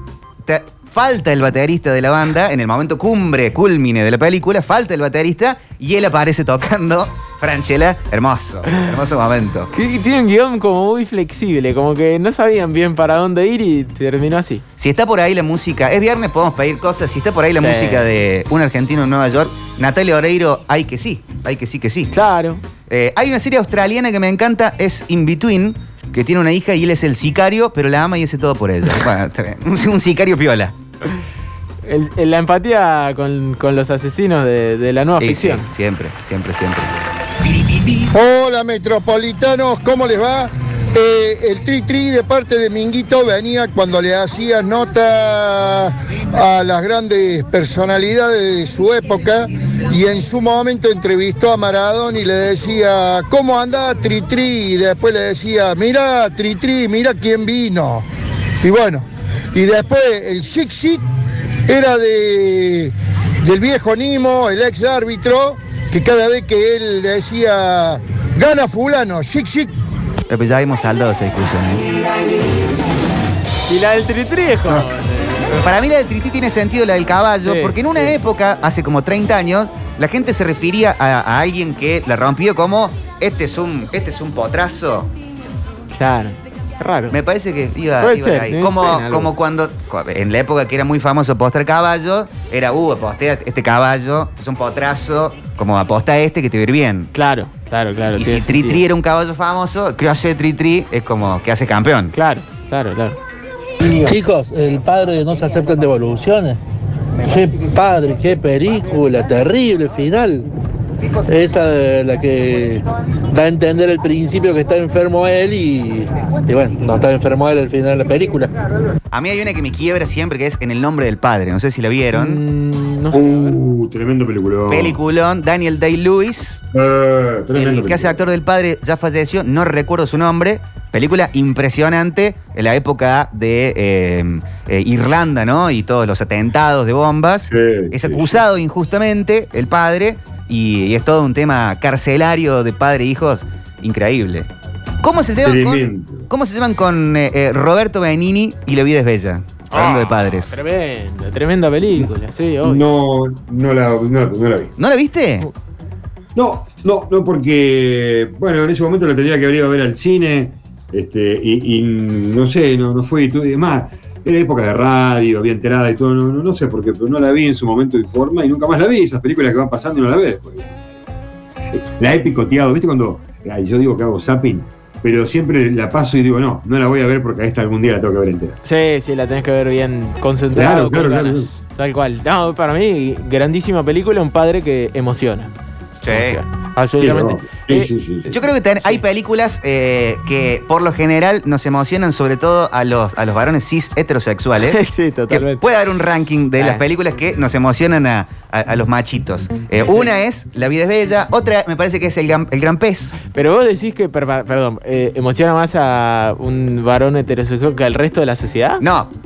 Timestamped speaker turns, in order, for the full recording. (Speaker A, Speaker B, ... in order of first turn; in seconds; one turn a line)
Speaker A: 0.4-9.7
Speaker B: 9.7-14.6
Speaker A: 14.8-22.1
Speaker B: 17.6-18.1
Speaker B: 22.1-22.6
Speaker A: 22.9-30.8
Speaker B: 31.9-35.7
Speaker A: 35.2-38.1
Speaker C: 38.1-58.1
Speaker C: 58.6-61.0
Speaker C: 61.7-69.7
Speaker A: 70.3-71.9
Speaker B: 73.7-75.5
Speaker A: 75.5-85.1
Speaker B: 77.4-78.2
Speaker B: 85.9-87.2
Speaker A: 87.1-97.1
Speaker B: 88.0-89.3
Speaker B: 97.1-98.8
Speaker A: 98.2-102.1
Speaker B: 102.1-103.2
Speaker D: 103.8-106.6
Speaker D: 107.2-110.5
Speaker D: 111.3-118.5
Speaker A: 119.1-122.4
Speaker B: 122.1-123.6
Speaker E: 123.1-125.0
Speaker A: 124.7-126.6
Speaker E: 126.7-128.2
Speaker A: 127.5-144.5
Speaker E: 137.5-138.4
Speaker A: 145.0-150.6
Speaker E: 145.4-146.3
Speaker B: 149.7-152.8
Speaker E: 152.6-154.7
Speaker A: 154.8-155.5
Speaker E: 156.4-170.7
Speaker E: 171.7-178.6
Speaker B: 178.6-185.5
Speaker E: 180.5-181.5
Speaker A: 186.0-186.4
Speaker B: 186.1-187.9
Speaker E: 187.0-188.3
Speaker A: 188.3-203.2
Speaker B: 194.6-195.6
Speaker B: 196.6-196.8
Speaker B: 199.8-200.1
Speaker B: 203.3-208.8
Speaker A: 208.8-209.1